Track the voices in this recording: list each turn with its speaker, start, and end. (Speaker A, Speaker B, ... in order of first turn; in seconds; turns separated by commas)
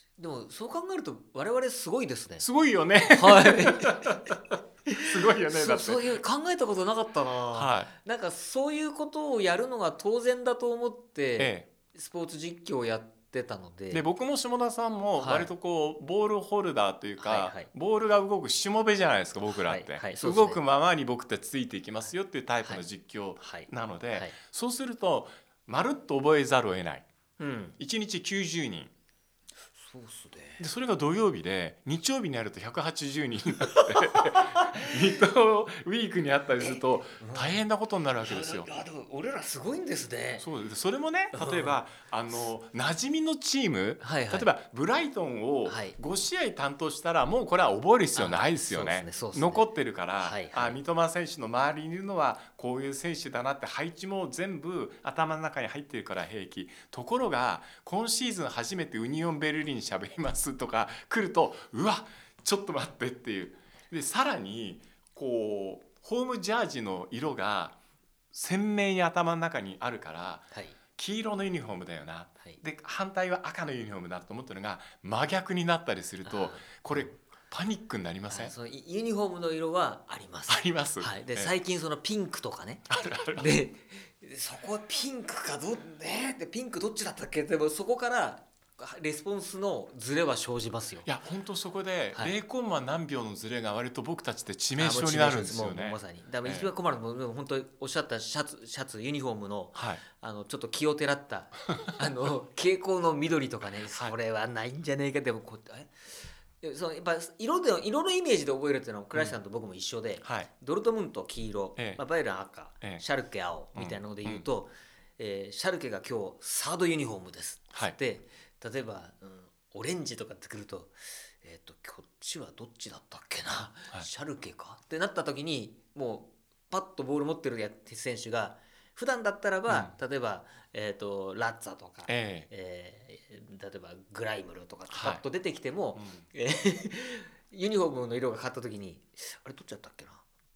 Speaker A: 0.2-2.5, Speaker B: 2.4-6.2, Speaker A: 3.1-14.0, Speaker B: 7.5-7.9, Speaker B: 11.4-11.7, Speaker B: 13.9-27.1, Speaker A: 15.2-15.5, Speaker A: 17.2-17.7, Speaker A: 19.5-20.6, Speaker A: 23.4-24.4, Speaker A: 27.4-27.8, Speaker B: 27.8-28.9, Speaker A: 29.8-30.6, Speaker B: 30.6-38.7, Speaker A: 33.6-34.9, Speaker A: 37.2-37.6, Speaker A: 38.2-40.5, Speaker B: 40.4-67.8, Speaker A: 41.3-41.8, Speaker A: 44.0-44.5, Speaker A: 45.6-46.0, Speaker A: 48.1-49.6, Speaker A: 50.2-50.8, Speaker B: 68.3-78.5, Speaker A: 70.5-70.8, Speaker A: 76.2-77.2, Speaker A: 78.3-91.1, Speaker B: 80.5-81.5, Speaker B: 82.9-83.5, Speaker B: 91.0-96.7, Speaker A: 94.8-140.2, Speaker B: 99.7-100.0, Speaker B: 110.2-110.5, Speaker B: 113.7-114.5, Speaker B: 129.7-129.9, Speaker B: 132.1-132.5, Speaker B: 134.9-135.2, Speaker B: 135.9-136.2